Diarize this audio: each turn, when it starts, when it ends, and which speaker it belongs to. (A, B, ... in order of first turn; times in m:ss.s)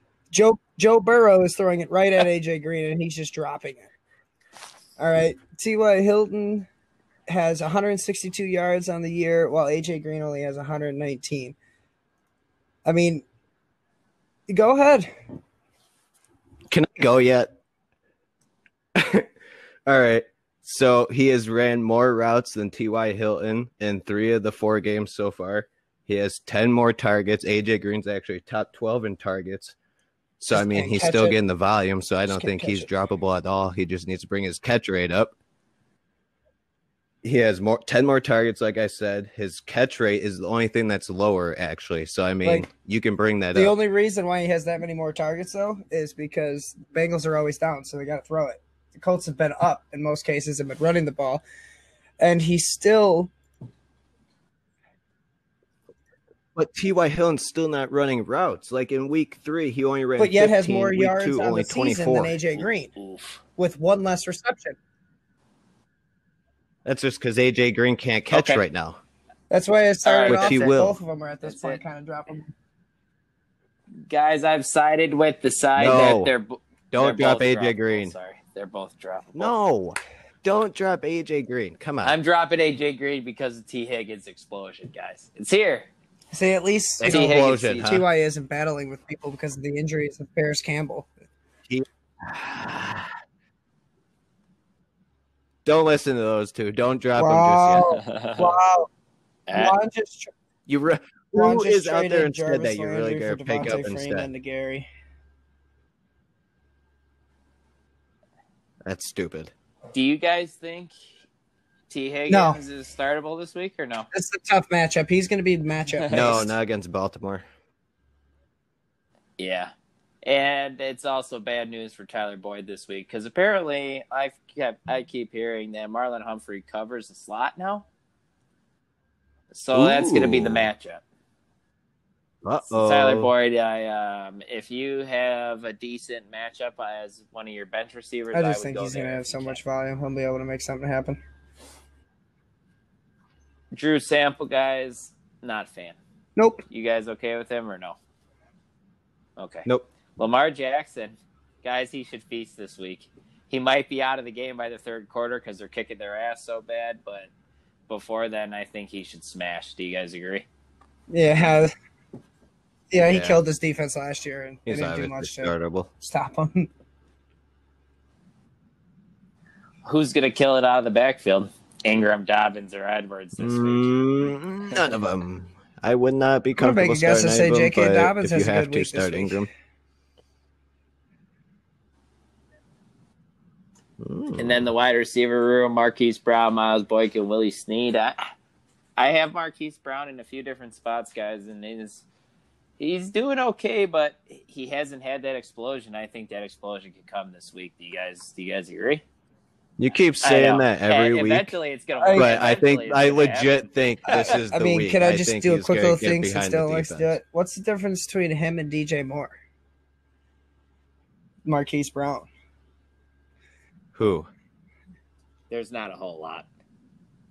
0:00.3-0:03.9 A
0:05.0-0:06.7 A
0:07.3-0:11.6 A
0:12.8-0:13.3 A
0:14.5-0:15.1 A
0:16.7-0:17.5 B
0:19.0-0:19.3 B
0:19.9-0:29.8 B
0:30.4-0:35.4 B
0:30.5-0:31.4 A
0:32.3-0:32.9 A
0:37.2-0:43.8 B
0:43.5-0:51.4 A
0:52.2-0:53.3 A
0:56.6-1:02.4 B
1:00.2-1:02.9 A
1:02.5-1:03.4 C
1:03.6-1:04.8 A
1:06.9-1:09.0 B
1:08.3-1:08.6 C
1:09.5-1:12.5 A
1:10.0-1:10.8 C
1:10.3-1:11.0 B
1:11.4-1:11.8 C
1:14.1-1:19.5 C
1:15.8-1:16.3 B
1:16.9-1:18.1 B
1:19.4-1:22.2 B
1:22.0-1:25.9 C
1:26.3-1:31.1 A
1:27.0-1:28.1 B
1:27.0-1:27.9 C
1:31.7-1:33.1 B
1:35.6-1:37.9 B
1:37.2-1:38.9 A
1:37.9-1:38.6 C
1:39.5-1:39.8 C
1:39.6-1:40.3 A
1:40.7-1:44.3 B
1:41.3-1:44.9 A
1:48.8-1:49.5 B
1:49.9-1:50.9 C
1:51.9-1:54.1 C
1:52.3-1:52.6 A
1:54.1-1:56.5 A
1:55.9-1:56.4 C
1:56.1-1:57.4 B
1:59.4-1:59.7 C
2:00.2-2:07.9 C
2:09.5-2:11.0 C
2:09.7-2:10.7 B
2:12.4-2:13.3 B
2:12.7-2:19.6 C
2:18.3-2:21.2 A
2:23.7-2:26.0 C
2:26.4-2:26.6 A
2:26.7-2:28.0 C
2:29.4-2:37.3 C
2:37.9-2:40.5 C
2:41.1-2:41.7 A
2:42.9-2:46.7 A
2:43.0-2:43.4 B
2:44.7-2:45.9 B
2:49.8-2:53.9 C
2:53.4-2:59.5 B
2:56.6-2:59.4 A
3:04.0-3:04.7 B
3:04.4-3:08.2 C
3:09.0-3:12.0 C
3:12.8-3:19.0 C
3:19.8-3:21.6 B
3:20.2-3:24.4 C
3:22.0-3:22.3 A
3:22.1-3:27.2 B
3:24.1-3:29.4 A
3:31.4-3:32.3 A
3:33.9-3:34.3 B
3:35.5-3:36.5 C